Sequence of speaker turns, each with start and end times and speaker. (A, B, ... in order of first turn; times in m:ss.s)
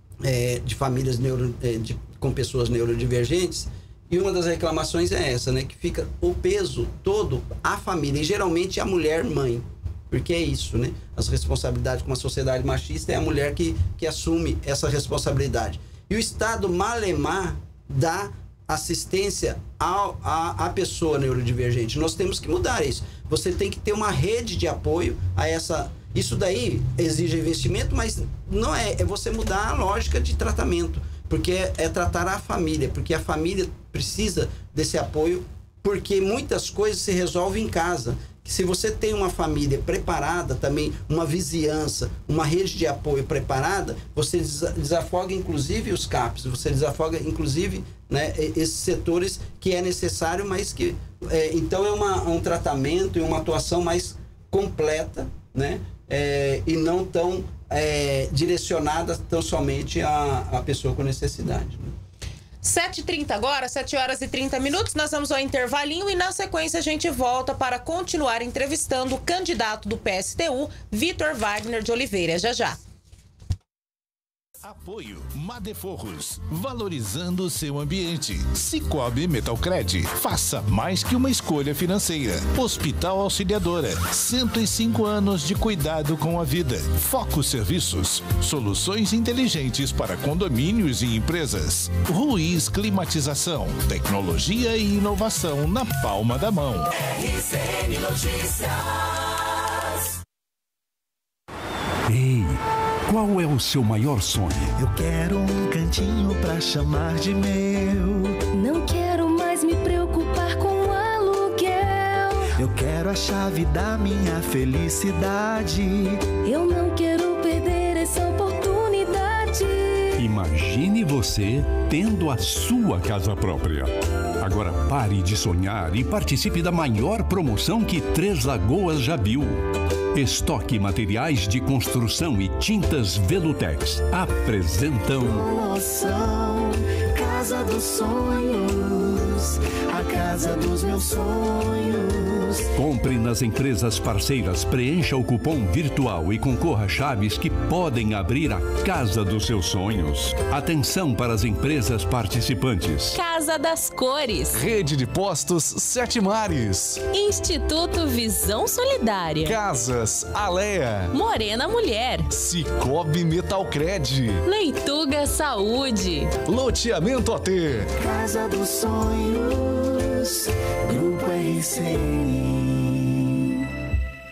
0:00.2-1:01.9 A
1:02.6-1:12.8 B
1:14.6-1:36.9 C
1:42.1-1:42.5 D
1:43.1-1:44.7 D
1:44.8-1:48.4 E
1:48.6-1:52.5 F
1:52.6-1:56.2 E
1:56.4-2:00.2 F
2:00.2-2:03.9 D
2:04.4-2:09.6 D
2:10.2-2:15.3 D
2:15.2-2:22.7 E
2:22.8-2:33.2 D
2:33.1-2:34.6 G
2:34.5-2:37.0 H
2:37.1-2:39.6 G
2:39.4-2:41.2 H
2:41.1-2:42.3 G
2:42.3-2:44.4 H
2:44.4-2:46.3 G
2:46.4-2:47.9 H
2:48.0-2:53.2 E